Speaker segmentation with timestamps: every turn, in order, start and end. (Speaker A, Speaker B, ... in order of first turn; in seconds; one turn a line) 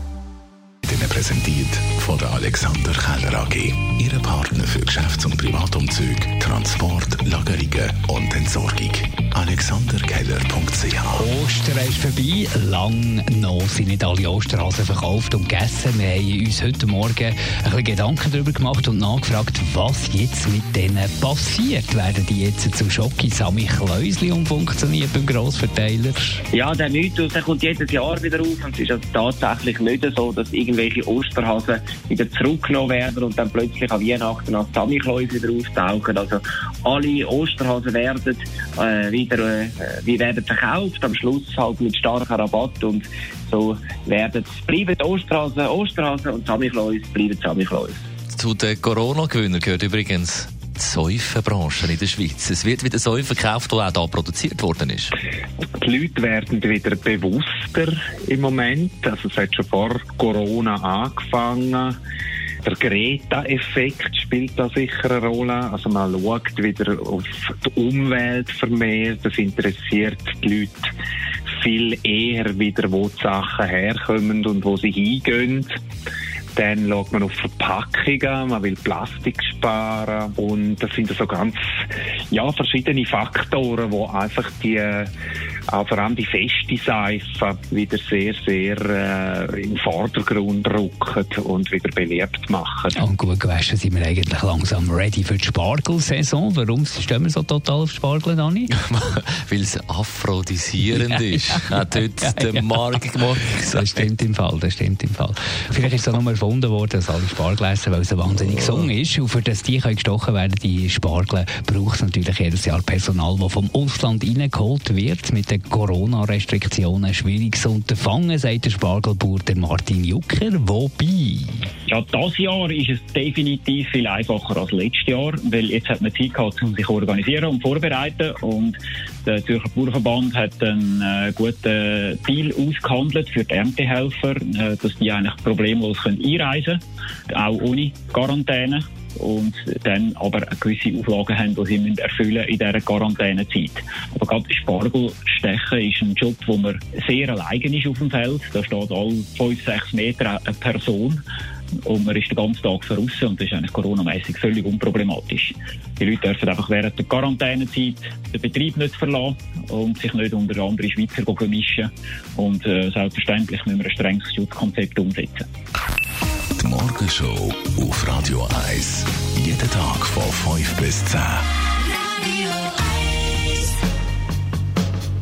Speaker A: 0.8-11.3
Speaker B: 11.1-26.4
Speaker C: 26.5-48.0
Speaker D: 48.3-55.1
Speaker E: 55.8-62.0
Speaker E: 62.6-70.9
Speaker E: 71.6-75.8
Speaker E: 76.5-85.1
Speaker E: 85.7-93.0
Speaker B: 93.0-98.7
Speaker D: 98.8-104.0
Speaker B: 103.7-121.7
Speaker F: 121.9-151.2
Speaker F: 151.8-165.4
Speaker A: 166.6-171.5